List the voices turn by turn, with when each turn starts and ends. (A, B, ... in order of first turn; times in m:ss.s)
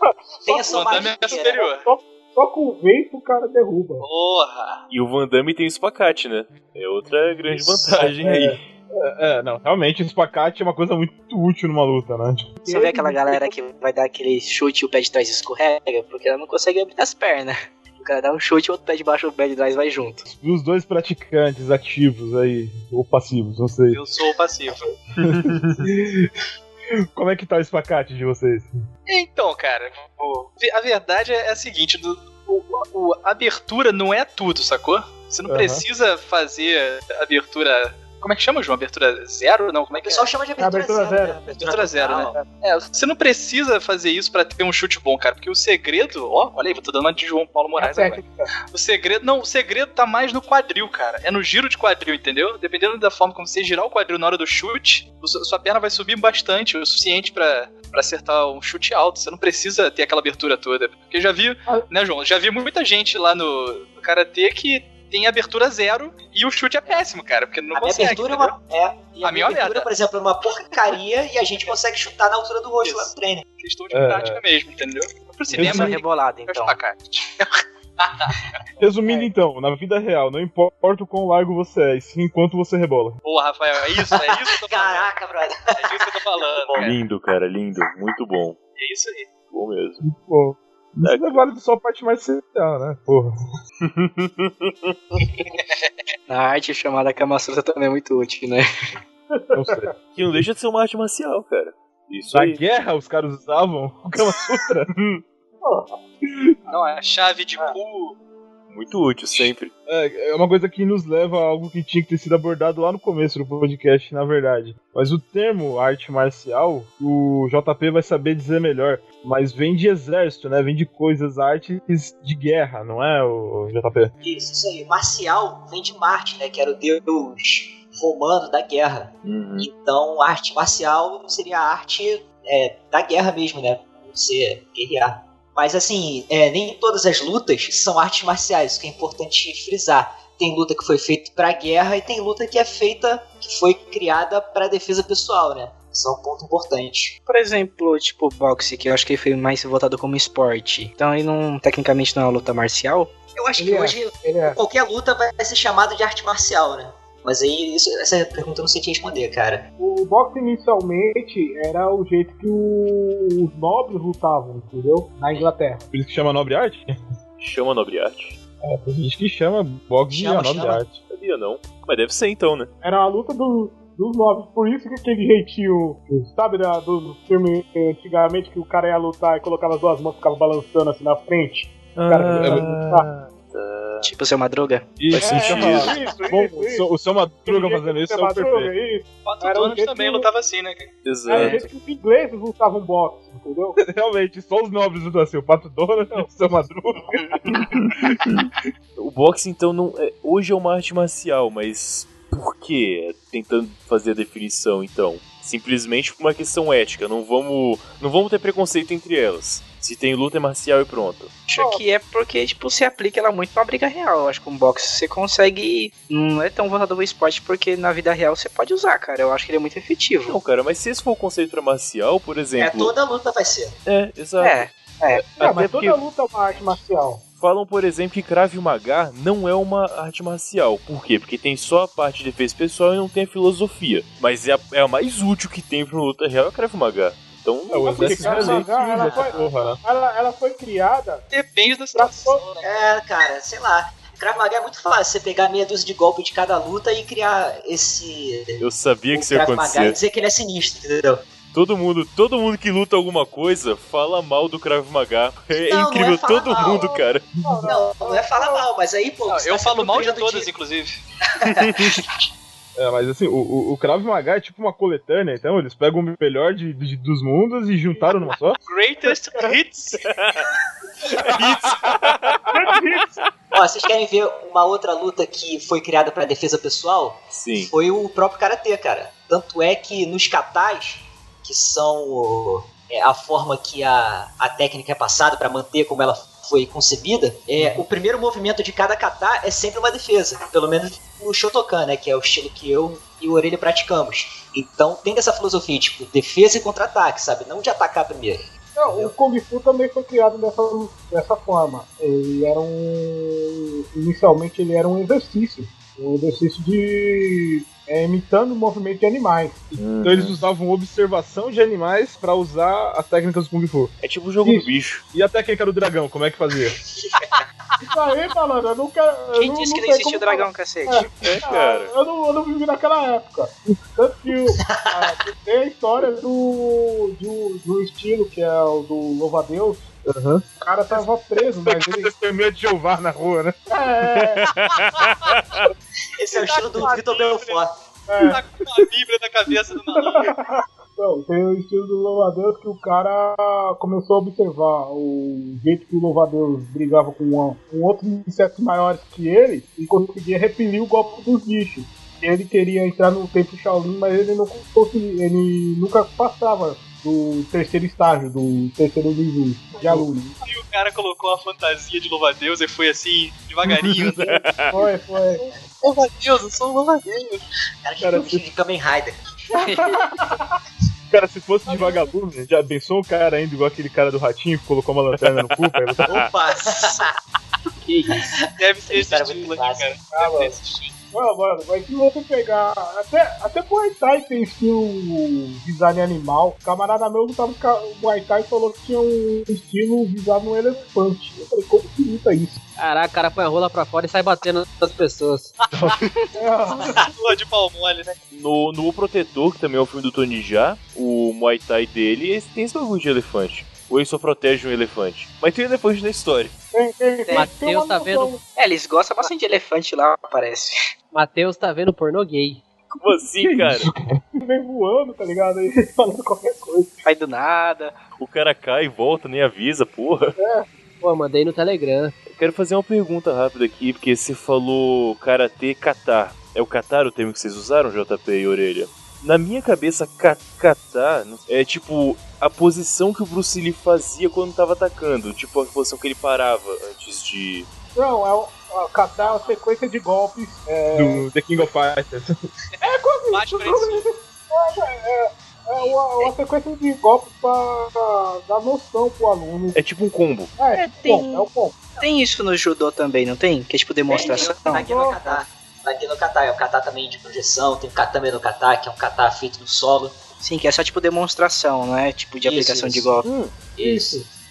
0:00.4-0:04.1 A
0:00.5-0:01.6 B
0:00.5-0:01.9 C
0:04.0-0:04.8 C
0:04.9-0:08.6 D
0:08.2-0:12.6 E
0:08.2-0:08.6 A
0:12.6-0:20.2 F
0:12.7-0:13.5 A
0:20.2-0:24.0 E
0:23.9-0:24.9 C
0:25.2-0:25.8 D
0:25.2-0:26.3 E
0:27.1-0:28.7 E
0:29.1-0:40.3 C
0:35.5-0:35.8 E
0:39.9-0:42.4 B
0:40.6-0:41.4 A
0:41.6-1:08.6 C
0:47.8-0:48.5 A
1:07.7-1:13.4 B
1:09.2-1:09.9 C
1:12.8-1:18.5 C
1:13.9-1:14.4 E
1:15.5-1:16.0 E
1:15.6-1:16.8 F
1:18.8-1:23.2 E
1:23.2-1:27.0 C
1:24.1-1:26.2 B
1:26.8-1:28.6 D
1:28.8-1:29.3 C
1:29.5-1:30.0 D
1:30.0-1:33.4 E
1:31.0-1:31.4 D
1:33.8-1:35.0 D
1:36.3-1:38.7 F
1:39.3-1:39.9 A
1:39.5-1:40.4 E
1:40.2-1:42.6 D
1:42.3-1:44.9 E
1:45.6-1:45.9 A
1:46.7-1:48.2 C
1:48.7-1:49.7 D
1:49.9-2:04.1 E
2:04.2-2:27.2 B
2:09.2-2:09.7 D
2:27.3-2:33.1 F
2:33.4-2:39.6 B
2:33.6-2:34.6 A
2:39.8-2:45.9 A
2:45.9-2:46.9 E
2:47.4-2:48.4 D
2:48.6-2:51.0 E
2:50.1-2:50.8 B
2:51.1-2:52.7 D
2:52.8-3:03.1 A
3:02.0-3:04.1 D
3:02.4-3:02.7 E
3:04.0-3:04.9 F
3:05.0-3:08.7 E
3:05.1-3:06.0 D
3:05.2-3:06.9 A
3:07.4-3:10.3 A
3:09.2-3:10.9 C
3:11.0-3:11.7 D
3:11.3-3:13.8 A
3:13.8-3:18.3 E
3:19.0-3:31.3 D
3:31.5-3:40.4 F
3:31.6-3:31.8 A
3:40.2-3:42.9 D
3:42.6-3:43.8 B
3:43.8-3:46.0 D
3:44.4-3:45.3 F
3:45.4-3:47.2 A
3:47.4-3:58.7 D
3:57.7-3:59.8 E
3:57.7-4:01.2 A
3:59.0-3:59.2 B
4:01.3-4:02.7 C
4:01.9-4:02.4 A
4:02.6-4:11.3 B
4:08.6-4:10.0 D
4:11.5-4:17.3 D
4:15.5-4:16.9 B
4:16.6-4:18.7 A
4:17.4-4:17.7 E
4:17.6-4:20.5 B
4:19.3-4:21.0 C
4:21.4-4:22.2 B
4:21.4-4:22.0 D
4:22.8-4:28.6 E
4:27.9-4:28.3 A
4:28.7-4:30.1 C
4:30.0-4:30.5 D
4:31.2-4:32.6 D
4:32.5-4:33.2 A
4:33.5-4:59.1 B
4:37.3-4:37.7 D
4:58.8-5:09.8 A
5:09.8-5:10.4 D
5:10.0-5:13.9 E
5:14.0-5:15.0 D
5:14.4-5:14.7 A
5:15.1-5:16.8 E
5:17.0-5:17.4 B
5:17.8-5:29.8 A
5:19.4-5:21.4 F
5:21.2-5:22.0 D
5:24.6-5:25.1 B
5:30.1-5:33.9 E
5:30.6-5:32.1 A
5:33.7-5:34.5 A
5:34.4-5:35.7 D
5:36.2-5:37.8 B
5:36.3-5:37.6 C
5:38.1-5:38.4 A
5:38.2-5:40.3 C
5:39.9-6:00.4 A
6:00.4-6:04.4 C
6:03.7-6:04.8 D
6:04.7-6:05.4 A
6:05.8-6:07.4 C
6:07.8-6:09.2 B
6:08.0-6:08.4 E
6:09.6-6:10.4 A
6:11.1-6:16.2 E
6:11.7-6:12.1 A
6:15.2-6:16.2 D
6:16.1-6:17.1 B
6:18.1-6:18.4 B
6:18.6-6:20.9 C
6:18.9-6:19.9 B
6:20.1-6:20.6 A
6:21.1-6:32.6 A
6:32.8-6:35.6 G
6:35.7-6:36.0 C
6:36.4-6:37.0 A
6:36.9-6:38.2 C
6:38.3-6:46.6 D
6:46.7-6:48.4 A
6:47.3-6:48.4 G
6:48.5-6:50.8 F
6:51.1-6:52.6 G
6:52.9-6:53.9 D
6:53.6-6:54.2 E
6:54.4-6:57.0 A
6:57.0-6:58.0 F
6:58.2-7:00.4 D
7:00.4-7:00.7 A
7:01.0-7:02.2 G
7:02.2-7:17.7 D
7:18.0-7:21.3 A
7:19.2-7:19.5 B
7:20.9-7:22.4 E
7:22.8-7:24.1 C
7:22.8-7:29.8 A
7:25.8-7:26.3 B
7:29.7-7:30.6 D
7:30.6-7:31.9 A
7:30.7-7:31.5 F
7:32.0-7:34.9 F
7:34.1-7:40.2 B
7:34.1-7:35.4 A
7:40.4-7:43.3 F
7:42.4-7:43.2 B
7:43.2-7:43.6 D
7:43.7-7:44.3 B